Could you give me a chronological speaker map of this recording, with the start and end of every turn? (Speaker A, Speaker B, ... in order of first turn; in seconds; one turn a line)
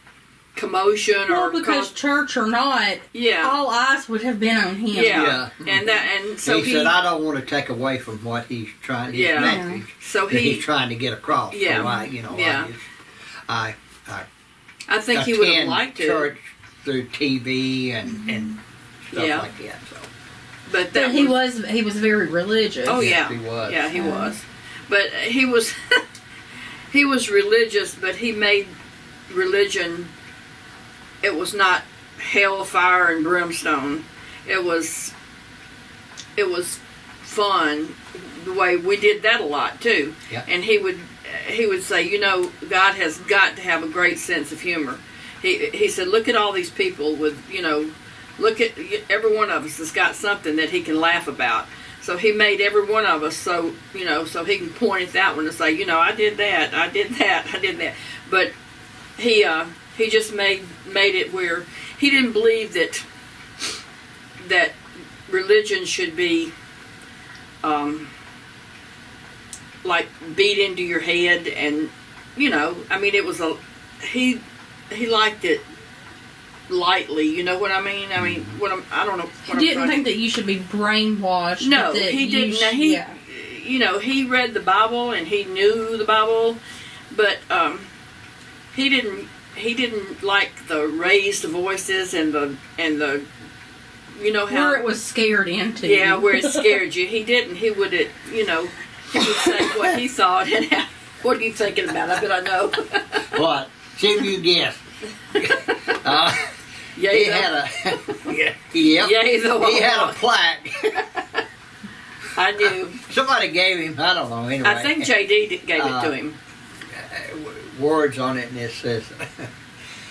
Speaker A: 0.5-1.9
Speaker B: 1.3-5.4
Speaker A: 3.1-3.5
Speaker A: 4.9-7.0
Speaker C: 5.1-5.8
Speaker C: 6.4-12.9
Speaker A: 9.1-10.7
Speaker B: 9.4-9.8
Speaker A: 11.5-12.7
Speaker C: 13.5-14.3
Speaker A: 14.9-16.3
Speaker C: 15.1-20.1
Speaker A: 19.1-19.5
Speaker A: 20.7-21.4
Speaker B: 20.9-23.0
Speaker A: 22.8-26.0
Speaker C: 23.0-23.9
Speaker B: 23.9-24.4
Speaker A: 26.9-28.7
Speaker A: 29.3-30.1
Speaker A: 31.2-35.1
Speaker A: 36.4-58.5
Speaker A: 59.2-63.0
Speaker A: 64.4-66.5
Speaker A: 67.6-68.1
Speaker A: 69.8-75.6
Speaker A: 76.7-80.0
Speaker C: 78.2-78.5
Speaker B: 79.5-83.2
Speaker A: 81.6-86.6
Speaker A: 87.1-87.9
Speaker A: 88.7-93.2
Speaker A: 94.1-94.8
Speaker B: 94.5-96.7
Speaker A: 95.8-103.4
Speaker C: 103.3-104.8
Speaker C: 105.3-111.0
Speaker A: 106.9-107.5
Speaker A: 109.0-110.2
Speaker A: 111.1-111.4
Speaker A: 112.3-113.0
Speaker C: 113.0-115.1
Speaker A: 114.6-116.4
Speaker C: 115.8-116.1
Speaker C: 116.9-119.5